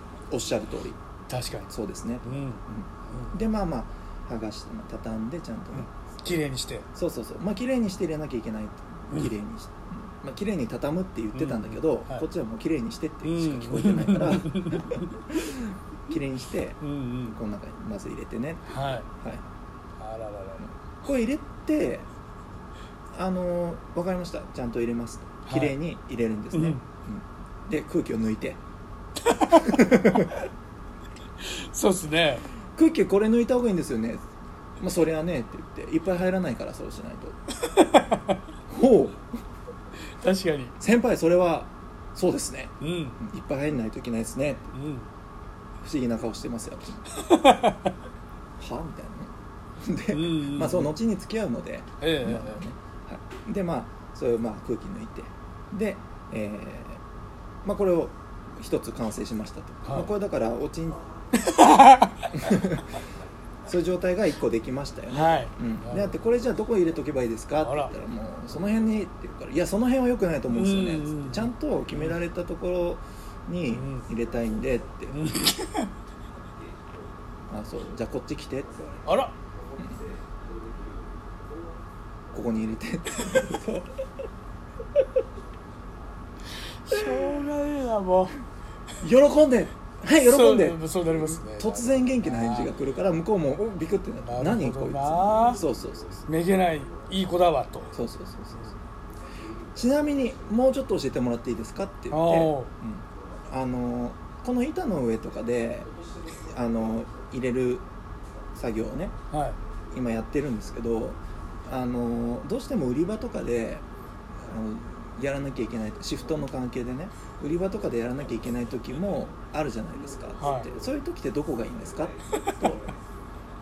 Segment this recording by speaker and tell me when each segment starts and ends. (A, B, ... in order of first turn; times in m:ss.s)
0:00.3-0:01.0 A
0:01.3-0:01.7 B
0:01.7-0:06.4 A
0:02.2-0:03.4 B
0:05.7-0:06.9 B
0:06.9-0:16.8 A
0:11.3-0:12.2 B
0:13.2-0:15.2 B
0:16.8-0:17.4 B
0:17.3-0:19.5 A
0:18.6-0:19.1 B
0:20.0-0:20.7 B
0:20.8-0:22.1 A
0:23.1-0:28.6 A
0:25.5-0:25.8 B
0:26.5-0:26.8 B
0:29.2-0:30.4 B
0:29.5-0:30.4 A
0:31.4-0:32.5 B
0:32.8-0:34.2 A
0:34.8-0:37.4 A
0:37.6-0:38.4 B
0:38.7-0:39.3 A
0:40.2-0:40.8 B
0:40.8-0:44.7 A
0:42.8-0:43.2 B
0:44.7-0:45.1 B
0:45.8-0:47.0 A
0:47.1-0:48.0 B
0:48.6-0:57.0 A
0:50.1-0:51.0 B
0:52.0-0:52.6 B
0:57.6-1:01.0 A
0:59.8-1:00.1 B
1:01.3-1:02.6 B
1:02.3-1:02.9 A
1:03.6-1:15.2 A
1:05.1-1:06.1 B
1:07.6-1:07.9 B
1:10.5-1:12.2 B
1:13.7-1:14.1 B
1:15.1-1:15.9 B
1:17.5-1:19.0 A
1:19.0-1:19.3 B
1:19.8-1:20.0 A
1:22.3-1:23.9 A
1:26.6-1:28.4 B
1:26.9-1:27.5 A
1:29.0-1:30.8 A
1:30.2-1:32.7 B
1:31.4-1:36.2 A
1:34.2-1:35.6 B
1:36.3-1:38.0 B
1:37.9-1:38.8 A
1:39.7-1:47.8 A
1:42.1-1:42.7 B
1:48.5-1:49.1 A
1:49.3-1:49.6 B
1:49.9-2:02.9 A
2:00.4-2:00.7 B